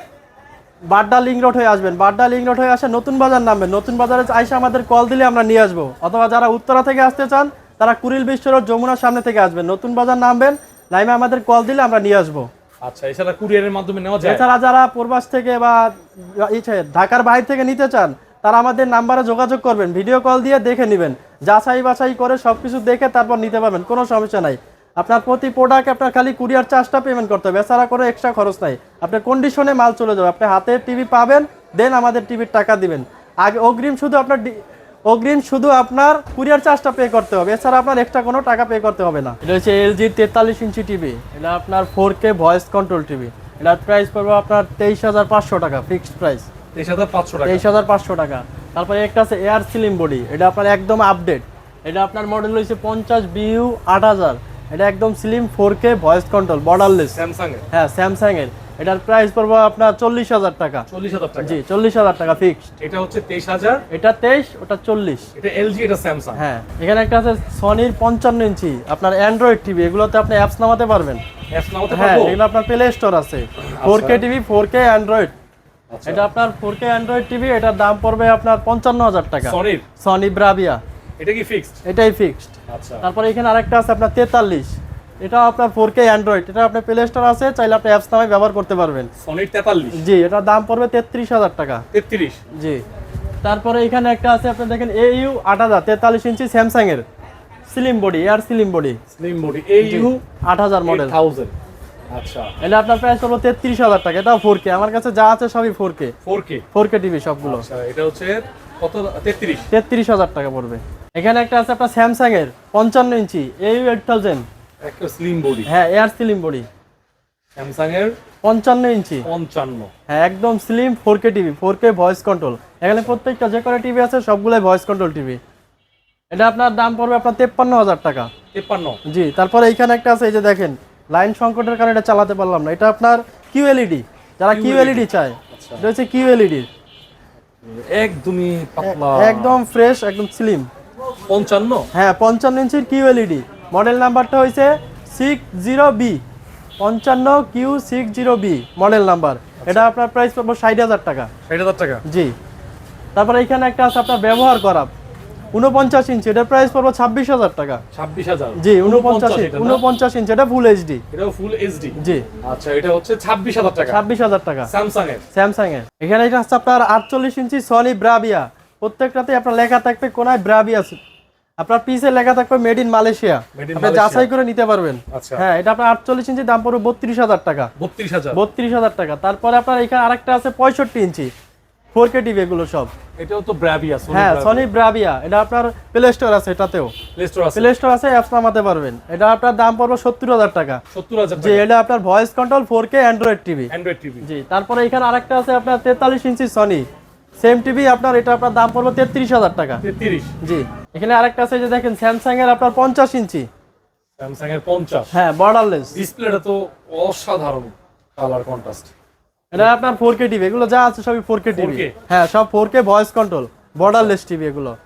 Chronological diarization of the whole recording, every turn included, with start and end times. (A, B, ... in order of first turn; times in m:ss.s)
0:00.9-0:12.5 A
0:12.8-0:14.4 B
0:14.2-0:46.5 A
0:46.7-0:47.7 B
0:47.5-0:57.2 A
0:57.1-0:57.6 B
0:57.7-1:00.9 A
1:00.9-1:01.6 B
1:01.4-1:02.6 A
1:02.8-1:03.8 B
1:03.9-1:05.3 A
1:05.4-1:06.4 B
1:06.4-1:11.2 A
1:11.5-1:12.4 B
1:11.9-1:15.3 A
1:13.6-1:14.2 B
1:15.9-1:16.3 B
1:16.1-1:20.8 A
1:19.4-1:19.8 B
1:21.2-1:21.8 B
1:21.9-1:29.1 A
1:22.7-1:23.1 B
1:29.2-1:30.0 B
1:30.0-1:31.8 A
1:31.9-1:32.4 B
1:32.6-1:32.8 A
1:33.4-1:37.0 A
1:37.7-1:39.0 A
1:39.1-1:40.2 B
1:39.8-1:41.2 A
1:40.8-1:41.5 B
1:42.1-1:42.5 B
1:42.6-1:46.1 A
1:46.2-1:46.6 B
1:46.7-1:47.7 A
1:47.4-1:49.7 B
1:49.7-1:54.5 A
1:54.8-1:55.7 B
1:55.7-1:56.7 A
1:57.6-1:58.2 B
1:58.4-1:59.3 A
1:59.2-1:59.9 B
2:00.1-2:05.4 A
2:06.3-2:08.3 A
2:08.5-2:09.0 B
2:09.1-2:16.7 A
2:14.5-2:15.9 B
2:17.6-2:19.6 B
2:18.8-2:20.7 A
2:21.3-2:21.9 B
2:21.9-2:26.2 A
2:26.8-2:31.3 A
2:29.6-2:29.9 B
2:31.5-2:32.0 B
2:32.0-2:32.3 A
2:33.2-2:34.9 A
2:35.5-2:37.8 A
2:37.9-2:39.8 B
2:38.6-2:41.0 A
2:41.1-2:44.0 B
2:42.0-2:42.3 A
2:43.8-2:44.7 A
2:44.7-2:45.2 B
2:45.3-2:51.0 A
2:51.6-2:57.7 A
2:53.5-2:54.3 B
2:55.1-2:55.4 B
2:57.8-2:58.4 B
2:58.3-3:01.3 A
3:01.9-3:02.9 A
3:03.2-3:04.7 B
3:04.1-3:07.0 A
3:07.2-3:07.7 B
3:07.6-3:10.8 A
3:10.9-3:11.7 B
3:11.4-3:13.7 A
3:13.7-3:14.3 B
3:14.2-3:16.9 A
3:17.4-3:19.8 A
3:19.8-3:20.3 B
3:20.4-3:23.5 A
3:24.2-3:25.1 B
3:25.1-3:26.0 A
3:25.9-3:28.9 B
3:29.5-3:34.8 A
3:31.5-3:32.0 B
3:33.8-3:34.1 B